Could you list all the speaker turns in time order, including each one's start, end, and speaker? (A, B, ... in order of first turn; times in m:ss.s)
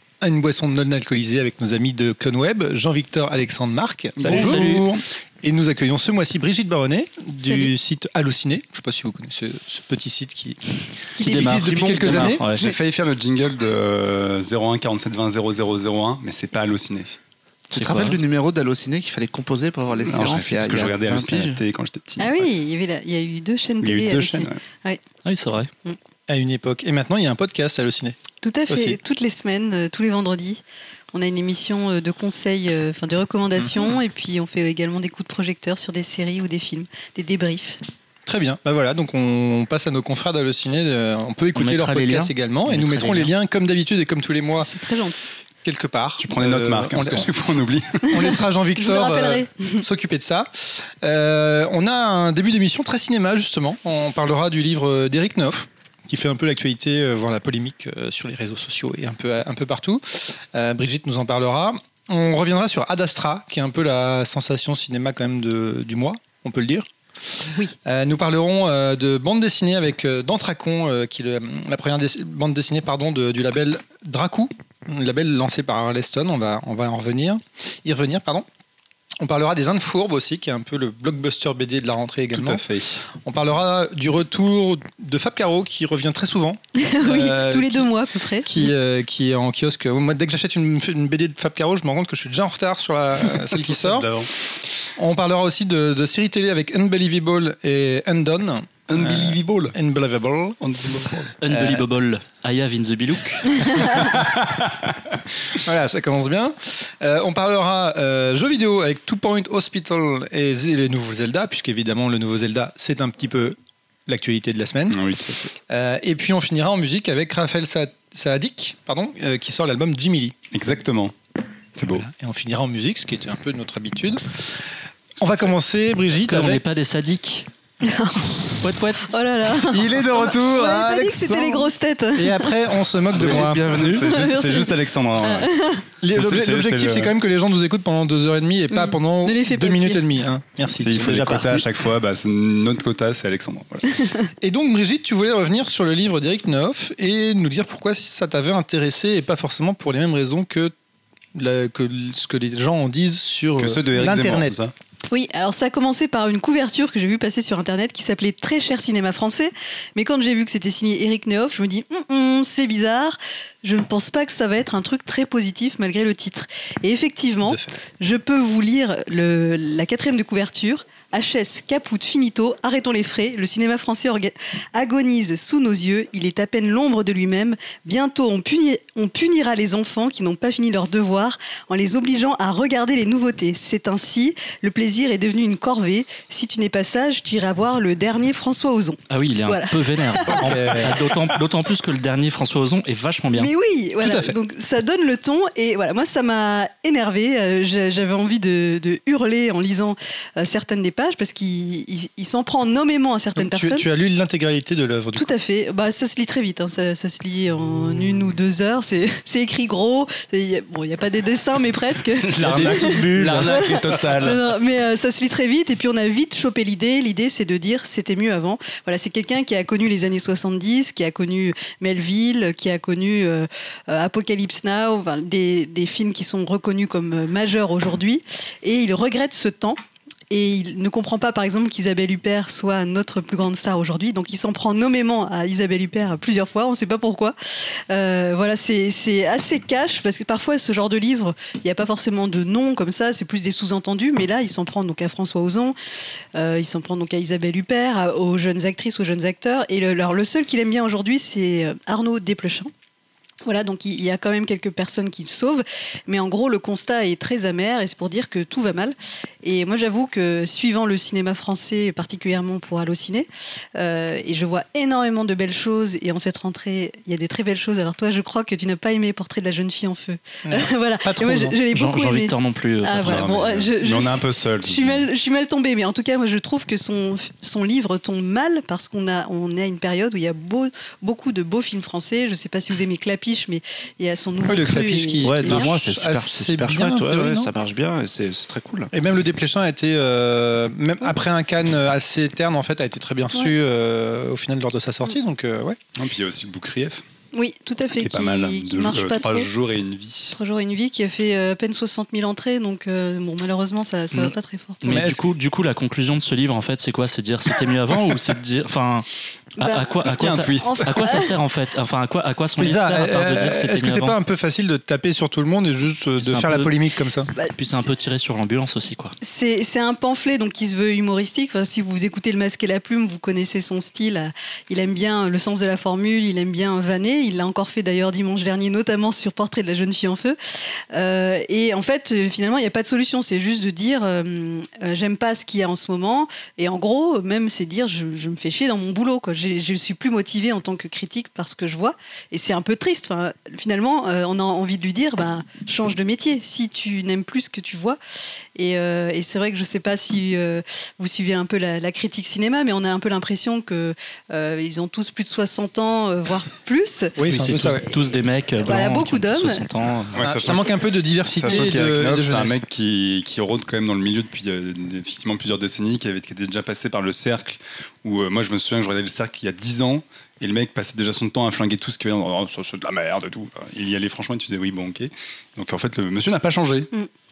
0:00.2-0:10.6 A
0:04.2-0:05.0 B
0:04.2-0:04.8 C
0:07.4-0:07.7 D
0:11.2-0:12.7 D
0:11.2-0:17.2 B
0:11.2-0:12.4 A
0:11.4-0:12.5 C
0:17.7-0:21.6 E
0:17.7-0:18.2 C
0:20.0-0:22.5 B
0:22.2-0:25.0 D
0:23.8-0:24.6 B
0:25.2-0:25.7 C
0:26.3-0:28.2 A
0:28.4-0:37.8 D
0:28.7-0:29.0 A
0:38.2-0:44.7 A
0:41.6-0:43.3 C
0:44.6-0:45.2 D
0:45.6-0:47.3 A
0:46.2-0:48.3 B
0:48.1-1:06.9 A
0:48.8-0:49.8 D
1:07.4-1:18.4 A
1:19.2-1:27.9 A
1:22.3-1:23.0 B
1:26.8-1:28.5 D
1:28.4-1:34.1 A
1:33.5-1:34.3 B
1:35.0-1:41.8 A
1:38.9-1:39.7 B
1:40.6-1:41.3 B
1:41.4-1:44.1 C
1:43.8-1:45.6 B
1:45.6-1:55.0 A
1:54.9-1:55.5 B
1:55.7-2:00.3 A
2:00.5-2:01.1 B
2:01.8-2:02.1 B
2:02.0-2:06.6 A
2:06.1-2:07.5 C
2:07.8-2:12.5 D
2:08.6-2:09.1 C
2:09.7-2:13.8 A
2:09.8-2:10.1 B
2:13.1-2:15.5 B
2:13.6-2:15.8 D
2:16.0-2:21.7 A
2:16.1-2:17.1 B
2:18.7-2:20.1 D
2:20.8-2:24.0 B
2:24.4-2:30.7 A
2:31.3-2:34.6 A
2:33.6-2:34.7 B
2:35.1-3:10.6 D
2:47.4-2:47.8 A
3:09.1-3:13.5 C
3:10.3-3:11.0 A
3:13.3-3:23.8 D
3:14.0-3:14.3 A
3:23.4-3:25.3 A
3:25.1-3:49.8 D
3:32.2-3:34.4 B
3:32.4-3:33.7 E
3:50.3-4:05.8 D
4:06.3-4:12.7 D
4:13.4-4:45.7 D
4:30.4-4:31.6 A
4:31.7-4:33.3 C
4:33.0-4:35.1 B
4:44.4-4:47.5 A
4:45.2-4:48.9 E
4:48.9-4:55.8 A
4:56.0-4:57.0 B
4:57.3-4:59.5 D
4:57.9-5:00.3 B
5:00.3-5:04.8 D
5:04.1-5:09.1 C
5:04.8-5:05.2 A
5:09.6-5:11.3 D
5:09.6-5:14.2 C
5:10.0-5:11.1 B
5:12.6-5:17.3 A
5:16.2-5:16.7 C
5:17.3-5:17.9 D
5:17.6-5:19.1 C
5:19.2-5:30.4 D
5:30.9-5:48.0 D
5:48.6-5:57.2 D
5:57.2-5:57.8 A
5:57.3-6:00.2 C
5:58.6-5:59.6 D
6:00.1-6:00.7 B
6:00.1-6:02.6 A
6:01.3-6:16.9 B